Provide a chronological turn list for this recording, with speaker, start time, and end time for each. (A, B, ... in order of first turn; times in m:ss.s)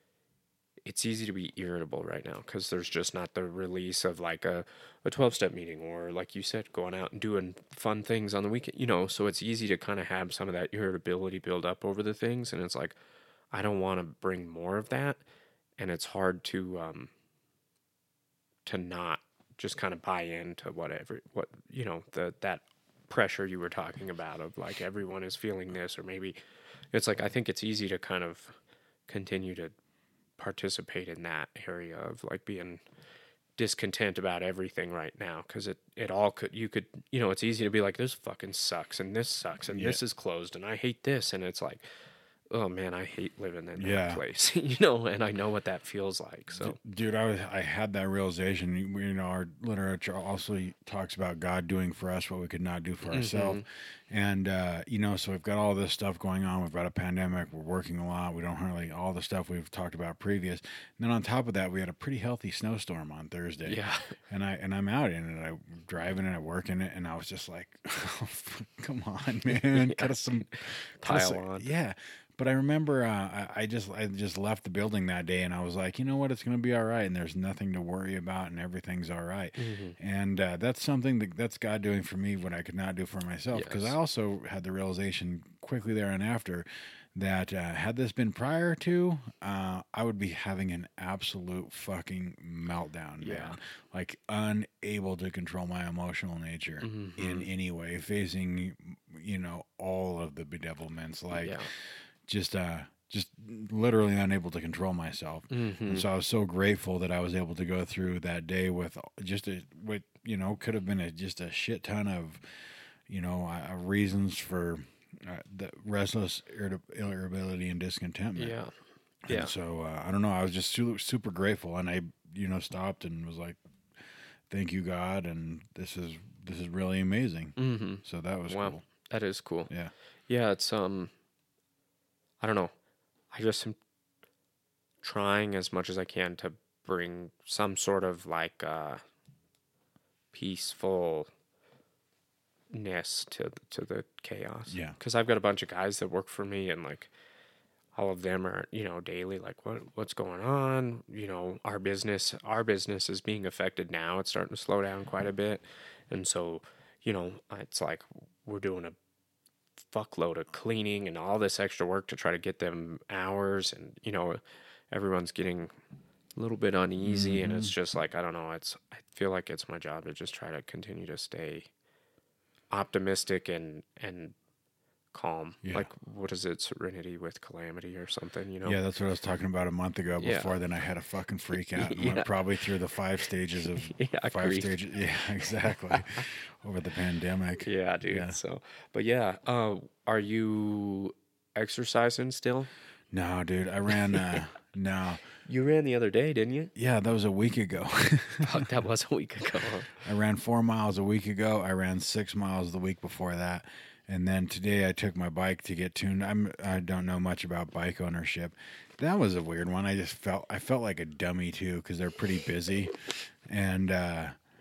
0:00.8-0:13.0 A
0:13.5-0:15.2 A
0:15.8-0:17.1 A
0:18.6-0:26.4 A
0:26.9-0:28.5 A
0:29.1-0:29.7 A
0:30.4-0:32.8 A
0:33.6-0:41.8 A
0:39.7-0:40.0 B
0:42.5-0:46.8 A
0:43.8-0:44.2 B
0:46.5-1:41.6 B
0:53.0-0:53.6 A
1:03.6-1:04.1 A
1:09.5-1:11.7 A
1:19.6-1:20.0 A
1:23.5-1:24.0 A
1:33.2-1:33.6 A
1:36.8-1:37.5 A
1:41.3-1:41.7 A
1:42.2-1:52.4 B
1:45.5-1:46.0 A
1:53.1-1:58.6 B
1:58.4-1:58.7 A
1:59.2-2:03.6 B
1:59.3-1:59.5 A
2:04.5-2:08.8 B
2:07.6-2:09.7 A
2:10.3-2:11.1 A
2:12.4-2:12.7 A
2:13.3-2:13.8 A
2:15.0-2:19.0 A
2:20.3-2:21.3 A
2:22.7-2:27.1 A
2:24.7-2:25.0 B
2:27.9-2:39.0 A
2:39.9-2:44.4 A
2:44.9-2:45.7 A
2:46.4-2:51.7 A
2:47.0-2:47.7 B
2:52.7-2:54.3 A
2:55.1-2:58.8 A
2:55.6-2:55.9 B
2:58.6-3:08.4 B
3:00.2-3:00.5 A
3:01.7-3:02.3 A
3:03.8-3:04.8 A
3:05.5-3:06.2 A
3:07.6-3:12.7 A
3:13.1-3:15.2 B
3:13.9-3:14.4 A
3:15.4-3:16.7 A
3:16.7-3:18.6 B
3:18.4-3:20.0 A
3:20.0-3:34.4 B